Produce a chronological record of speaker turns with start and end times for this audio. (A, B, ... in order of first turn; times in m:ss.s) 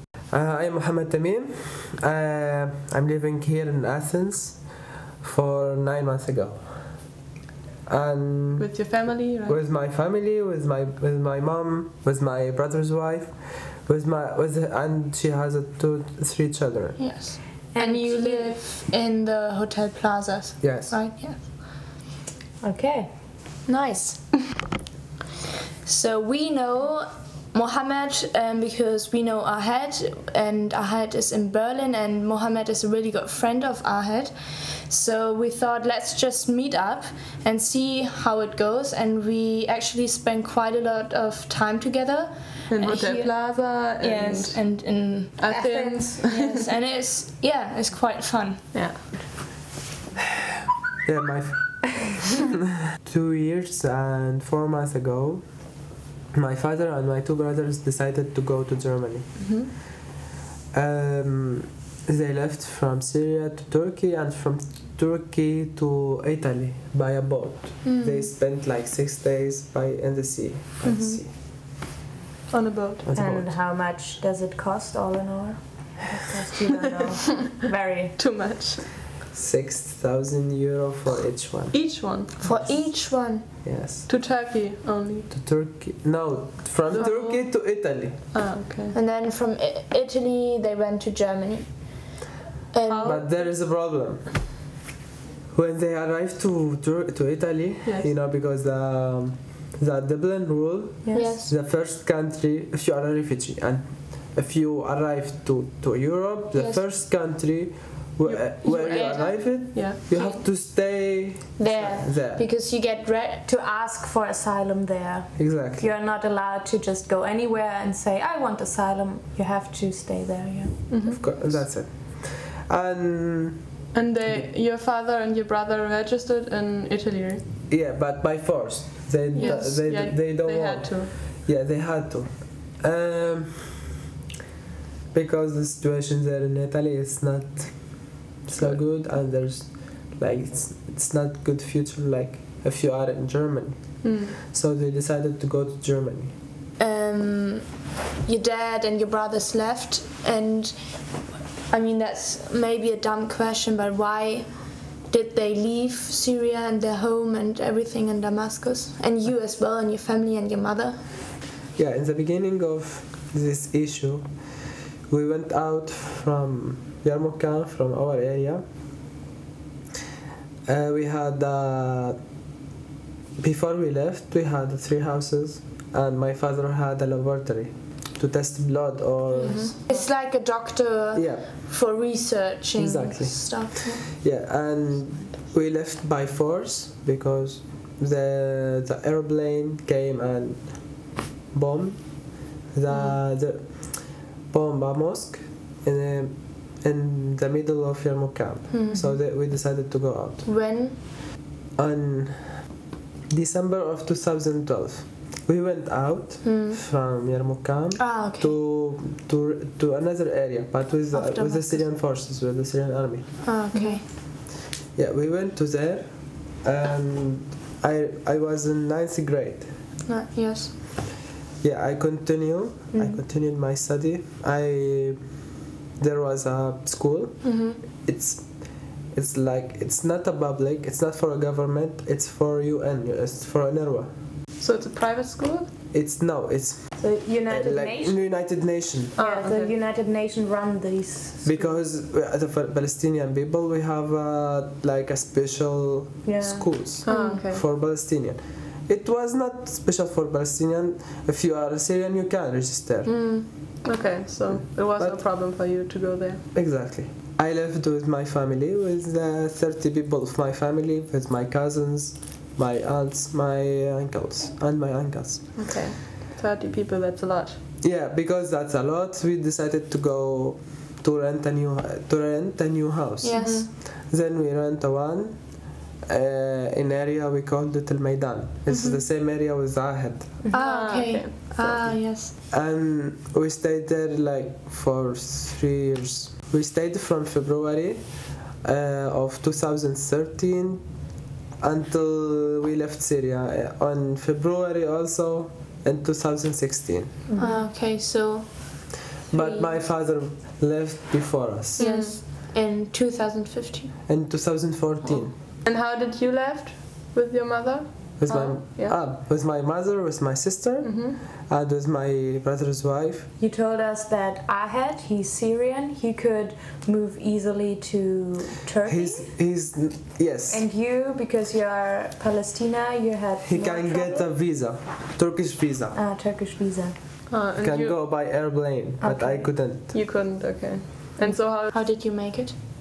0:00.3-0:04.6 A
0:05.2-0:06.6 A
0:07.9-0:08.7 A
0:08.6-0:09.6 B
0:09.5-0:13.3 A
0:13.8-0:17.0 A
0:17.0-0:21.4 C
0:17.7-0:18.5 D
0:20.6-0:20.9 A
0:22.6-0:23.1 D
0:23.7-0:24.5 C
0:25.8-0:43.2 C
0:42.7-0:44.6 B
0:43.0-0:43.3 D
0:44.0-0:45.8 C
0:45.4-0:46.6 B
0:45.5-0:46.6 D
0:46.4-0:48.6 C
0:48.7-0:49.1 B
0:51.0-0:55.5 A
0:56.3-0:59.4 A
0:59.4-0:59.7 B
1:00.7-1:11.3 A
1:07.8-1:08.3 C
1:12.5-1:13.0 B
1:13.0-1:13.5 A
1:13.1-1:18.3 D
1:18.2-1:18.8 B
1:19.3-1:24.1 A
1:21.7-1:22.3 B
1:22.4-1:23.4 C
1:24.0-1:25.3 B
1:25.3-1:28.2 A
1:26.9-1:27.5 B
1:28.3-1:28.9 B
1:28.9-1:32.0 C
1:32.7-1:33.2 C
1:32.9-1:33.4 B
1:33.0-1:34.4 A
1:35.5-1:52.4 A
1:37.8-1:38.1 B
1:41.0-1:41.4 D
1:41.1-1:41.5 C
1:46.5-1:46.8 C
1:48.2-1:50.0 B
1:48.8-1:49.4 C
1:50.1-1:50.4 C
1:51.6-1:53.4 C
1:53.4-2:01.5 D
1:55.4-1:55.9 A
2:00.9-2:01.2 B
2:01.1-2:03.6 A
2:03.9-2:07.4 B
2:07.7-2:13.8 A
2:09.3-2:11.1 B
2:15.1-2:26.3 A
2:24.0-2:24.4 B
2:26.8-2:27.7 C
2:28.2-2:41.0 C
2:41.8-2:44.3 A
2:45.1-2:48.6 A
2:50.6-2:52.2 A
2:53.4-2:59.7 A
2:59.3-3:00.0 B
2:59.4-3:04.0 C
3:01.1-3:01.5 A
3:02.7-3:20.4 A
3:18.7-3:19.1 C
3:20.4-3:21.0 C
3:21.8-3:22.6 A
3:23.3-3:33.4 A
3:26.4-3:26.8 C
3:28.0-3:28.5 C
3:31.1-3:31.8 C
3:33.4-3:34.0 C
3:33.7-3:34.0 B
3:34.9-3:39.7 A
3:40.0-3:40.7 C
3:41.6-3:45.2 A
3:42.9-3:43.2 D
3:46.0-3:54.1 A
3:47.4-3:47.7 C
3:54.6-3:55.7 B
3:55.9-3:56.9 A
3:57.0-3:58.2 D
3:57.5-3:59.2 A
3:59.2-3:59.7 B
3:59.2-4:01.7 D
4:01.4-4:13.1 A
4:06.2-4:06.9 D
4:07.0-4:07.6 B
4:07.1-4:07.4 C
4:13.1-4:16.4 B
4:14.9-4:15.2 A
4:16.5-4:25.6 A
4:25.6-4:27.6 B
4:27.8-4:40.4 A
4:33.2-4:33.7 C
4:33.4-4:33.7 B
4:38.7-4:39.0 C
4:40.5-4:42.3 C
4:40.5-4:41.3 B
4:41.6-4:50.8 A
4:51.6-4:57.1 A
4:57.3-4:57.7 D
4:57.4-4:59.8 C
4:59.3-5:01.8 A
5:01.8-5:02.2 B
5:01.8-5:03.9 C
5:04.1-5:05.3 A
5:05.6-5:09.0 B
5:08.2-5:13.3 A
5:08.3-5:08.6 C
5:10.8-5:11.2 B
5:13.4-5:19.3 D
5:18.8-5:20.6 A
5:20.5-5:24.3 D
5:23.4-5:26.0 A
5:25.9-5:26.9 D
5:27.3-5:28.0 B
5:27.6-5:29.9 A
5:29.0-5:29.6 D
5:29.9-5:31.7 B
5:31.7-5:32.6 C